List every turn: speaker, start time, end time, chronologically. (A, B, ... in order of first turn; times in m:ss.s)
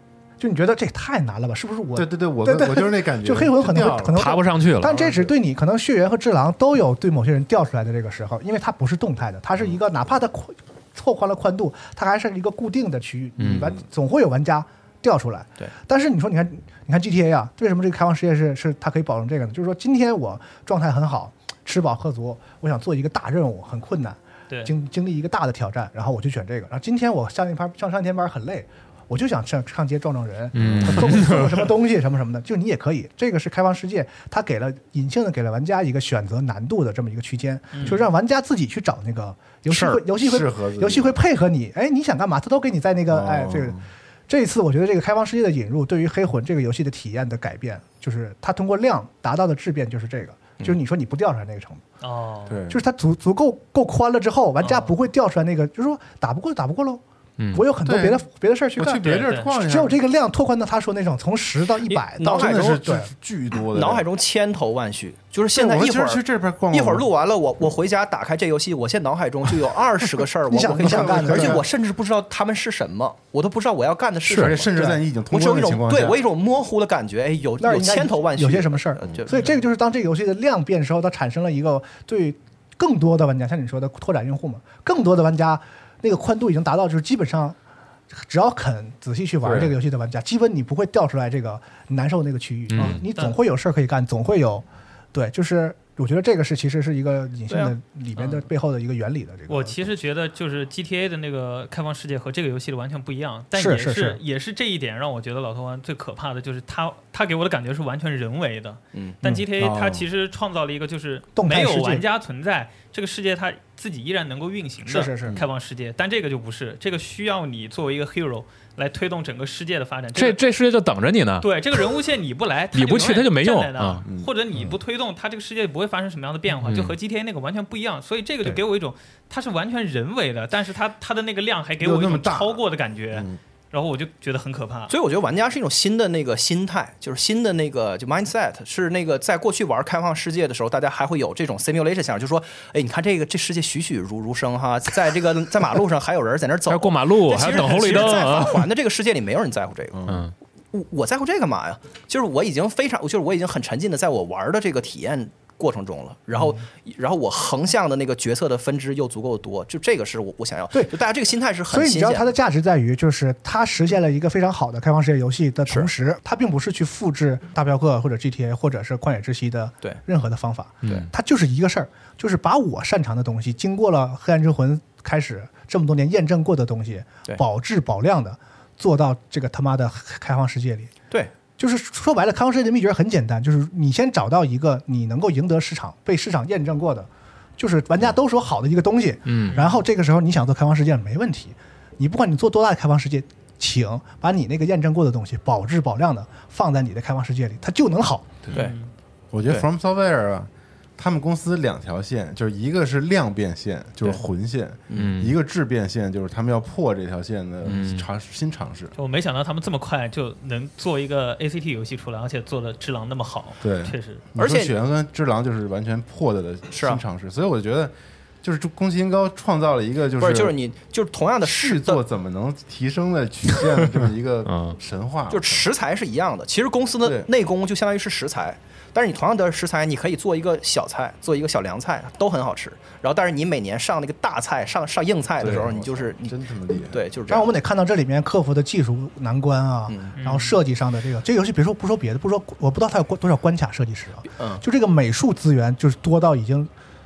0:00.4-0:43.8 A
0:01.9-0:05.3 B
0:04.1-0:05.0 C
0:13.4-0:13.7 C
0:30.5-0:31.7 C
0:30.6-0:31.4 B
0:37.7-0:38.0 D
0:39.7-0:40.0 E
0:40.2-0:41.2 B
0:43.1-0:43.8 B
0:44.3-0:51.8 A
0:52.0-0:52.6 D
0:52.5-0:52.8 B
0:52.7-0:57.0 A
0:54.6-0:54.9 D
0:57.4-0:57.6 C
0:57.5-1:03.1 A
0:57.8-0:58.2 B
0:58.8-1:00.0 B
0:59.0-0:59.5 D
1:01.9-1:02.8 E
1:02.2-1:04.0 B
1:03.7-1:19.5 E
1:05.5-1:07.1 B
1:10.5-1:11.6 A
1:10.7-1:11.7 B
1:14.2-1:16.2 B
1:14.7-1:15.0 A
1:17.6-1:27.6 A
1:28.1-1:39.8 A
1:29.4-1:29.8 B
1:32.7-1:33.0 C
1:32.8-1:33.4 D
1:37.5-1:37.7 E
1:38.2-1:38.4 D
1:39.5-2:00.4 D
1:43.5-1:44.2 A
1:49.6-1:50.1 B
1:51.4-1:52.0 A
1:54.8-1:55.3 A
2:00.1-2:01.5 C
2:01.4-2:14.9 D
2:02.7-2:04.0 C
2:04.0-2:04.8 B
2:06.6-2:07.0 C
2:11.8-2:12.6 B
2:13.1-2:13.4 B
2:14.9-2:30.0 E
2:26.7-2:28.6 C
2:27.4-2:28.4 D
2:29.9-2:30.2 B
2:30.1-2:30.3 C
2:30.7-2:42.3 E
2:41.7-3:00.9 A
3:01.6-3:18.4 A
3:09.3-3:09.6 C
3:09.5-3:09.8 D
3:18.5-3:18.8 E
3:18.5-3:18.9 D
3:19.3-3:28.9 B
3:24.9-3:25.3 C
3:27.6-3:28.1 C
3:29.0-3:34.2 D
3:33.6-3:40.5 B
3:34.4-3:34.7 E
3:36.7-3:37.0 E
3:40.2-3:42.0 E
3:41.4-3:45.7 B
3:44.4-3:44.8 C
3:45.3-3:56.4 E
3:47.0-3:47.3 B
3:55.4-3:57.0 B
3:56.9-3:57.5 E
3:57.3-4:06.7 A
3:59.9-4:00.2 E
4:00.2-4:00.6 D
4:04.3-4:04.6 E